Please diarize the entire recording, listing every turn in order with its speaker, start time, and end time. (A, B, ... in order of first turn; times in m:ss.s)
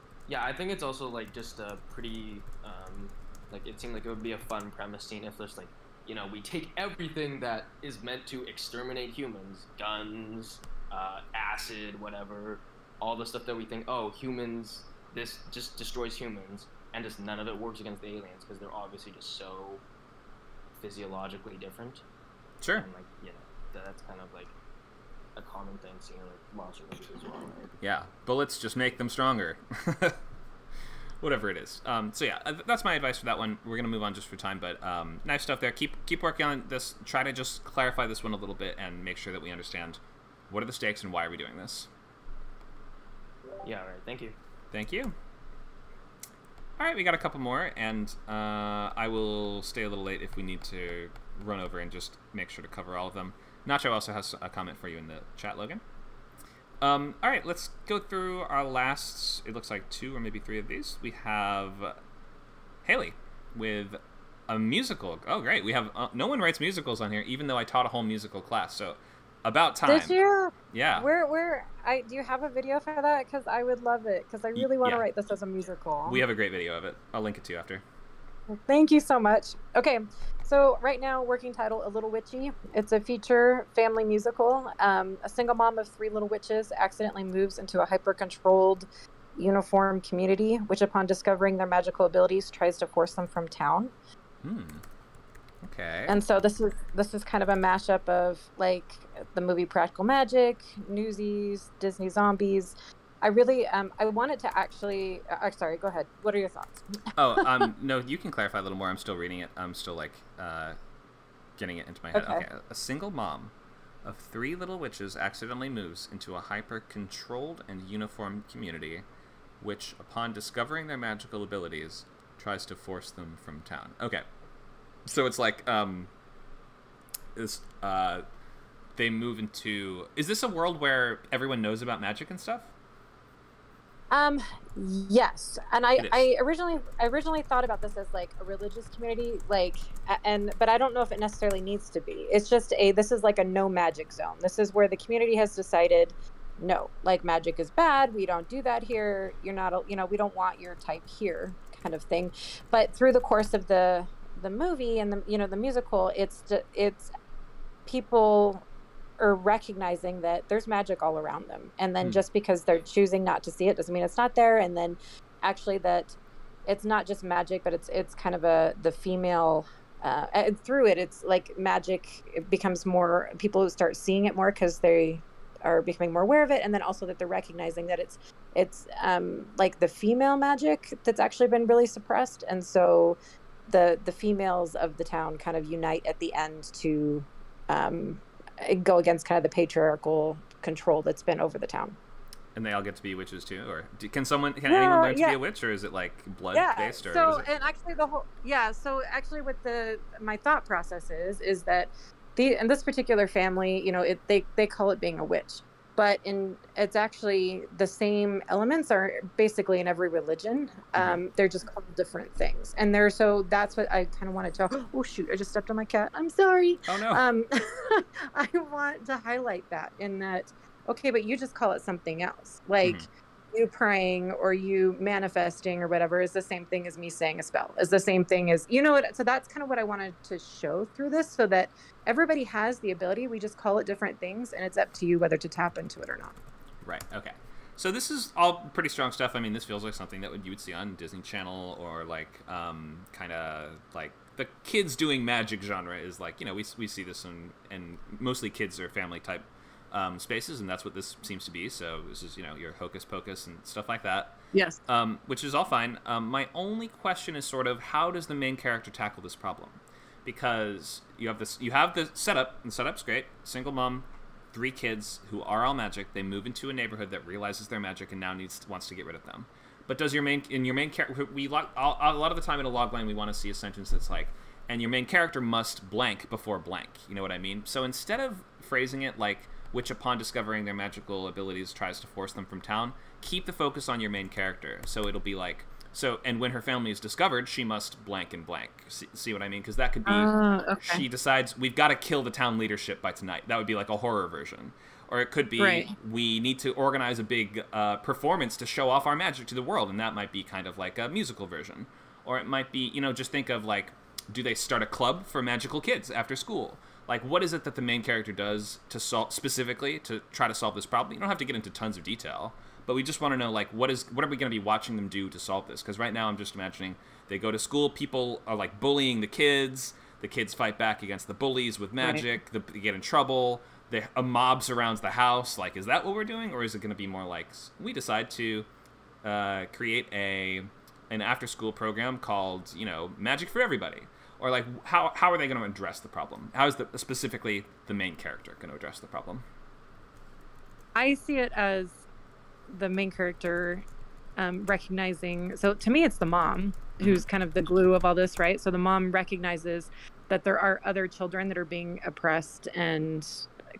0:00.3-0:19.8 A
0:20.8-0:22.0 A
0:22.6-0:22.9 B
0:22.7-0:24.5 A
0:25.4-0:27.7 A
0:27.8-0:30.2 B
0:31.2-0:41.9 B
0:43.6-0:44.4 A
0:44.7-0:45.1 B
0:46.8-0:55.8 B
0:56.8-1:02.0 B
1:02.8-1:10.2 B
1:09.8-1:16.2 C
1:10.7-1:11.1 B
1:14.5-1:15.1 B
1:16.0-1:17.8 B
1:18.5-1:33.9 C
1:34.4-1:34.8 B
1:35.6-1:36.2 B
1:36.1-1:47.6 C
1:47.1-1:50.8 B
1:51.6-1:53.5 B
1:52.1-1:52.4 C
1:54.0-1:59.0 B
1:59.6-2:04.2 B
2:05.0-2:06.1 B
2:07.4-2:08.2 B
2:09.0-2:12.7 B
2:14.1-2:37.1 C
2:16.0-2:16.3 B
2:37.8-2:38.6 C
2:39.2-3:12.0 C
3:12.5-3:17.4 B
3:14.7-3:15.4 C
3:16.5-3:56.4 C
3:31.0-3:31.2 B
3:36.9-3:37.2 B
3:42.8-3:43.1 B
3:56.8-4:14.3 B
4:14.5-4:14.8 C
4:14.9-5:28.7 B
4:50.0-4:51.0 C
4:55.6-4:55.9 C
5:22.0-5:22.2 C
5:29.2-5:39.4 B
5:40.9-5:42.0 C
5:42.7-5:43.8 C
5:44.4-5:53.5 C
5:47.0-5:47.2 B